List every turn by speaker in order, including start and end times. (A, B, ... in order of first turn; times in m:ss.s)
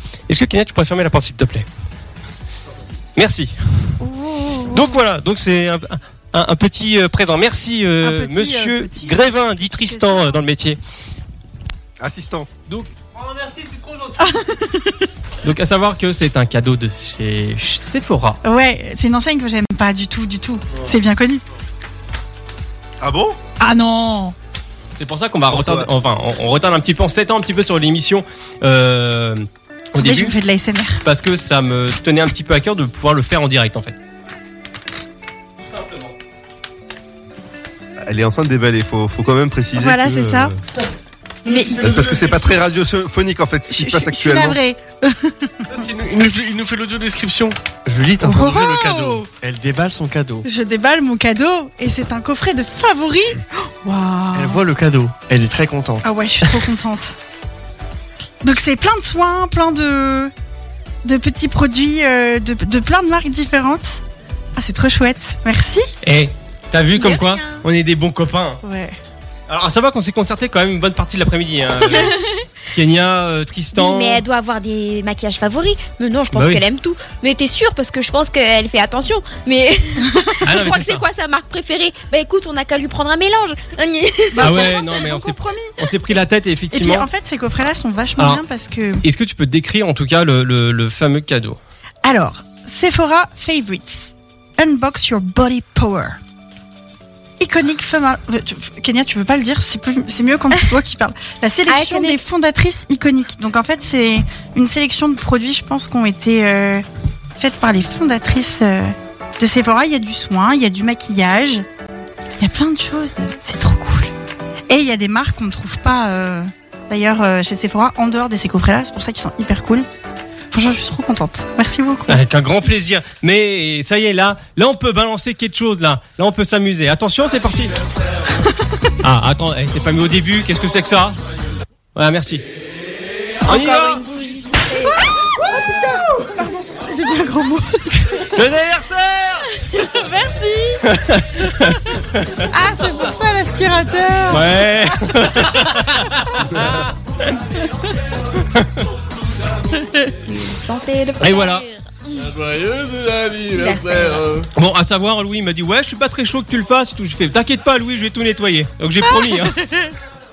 0:00.3-0:01.7 A
0:03.2-0:04.0 A
0:04.0-0:04.9 B
0:04.7-0:10.8 A
0:08.0-0:09.3 B
0:09.8-0:10.4 B
0:12.0-0:12.5 C
0:13.1-0:14.4 D
0:14.2-0:15.1 B
0:15.4-0:18.4 A
0:18.4-0:21.4 B
0:23.0-0:23.4 C
0:23.6-0:24.4 B
0:25.0-0:30.4 A
0:25.5-0:25.9 C
0:30.0-0:31.0 B
0:31.0-0:34.0 A
0:38.0-0:40.6 C
0:39.8-0:40.5 B
0:41.5-0:42.4 B
0:41.8-0:44.6 C
0:43.7-0:45.6 B
0:45.7-0:50.5 D
0:48.2-0:49.3 B
0:50.4-0:54.6 B
0:54.3-0:56.6 D
0:56.0-0:57.2 B
0:58.4-1:00.3 B
1:01.0-1:04.0 B
1:04.6-1:05.9 B
1:06.0-1:08.6 A
1:06.9-1:07.6 E
1:08.6-1:09.0 B
1:09.5-1:12.2 A
1:11.9-1:12.4 E
1:12.7-1:14.2 A
1:13.7-1:24.7 E
1:16.3-1:16.6 A
1:20.4-1:21.0 A
1:24.3-1:25.8 B
1:24.4-1:27.1 A
1:26.7-1:29.0 B
1:29.0-1:31.6 A
1:32.0-1:36.2 B
1:37.4-1:46.8 B
1:41.7-1:42.2 E
1:47.4-1:51.6 B
1:52.4-1:54.1 B
1:54.7-1:59.9 B
2:00.5-2:02.2 B
2:02.1-2:07.7 A
2:09.0-2:11.2 A
2:12.0-2:12.4 A
2:13.4-2:15.0 E
2:13.5-2:14.0 A
2:15.5-2:18.3 B
2:18.3-2:19.6 A
2:19.8-2:20.8 B
2:20.9-2:22.5 A
2:22.5-2:24.6 B
2:24.3-2:27.3 A
2:28.5-2:28.9 A
2:30.2-2:32.2 E
2:31.2-2:31.6 A
2:32.1-2:34.5 D
2:33.5-2:34.2 E
2:34.6-2:39.6 A
2:39.1-2:39.9 B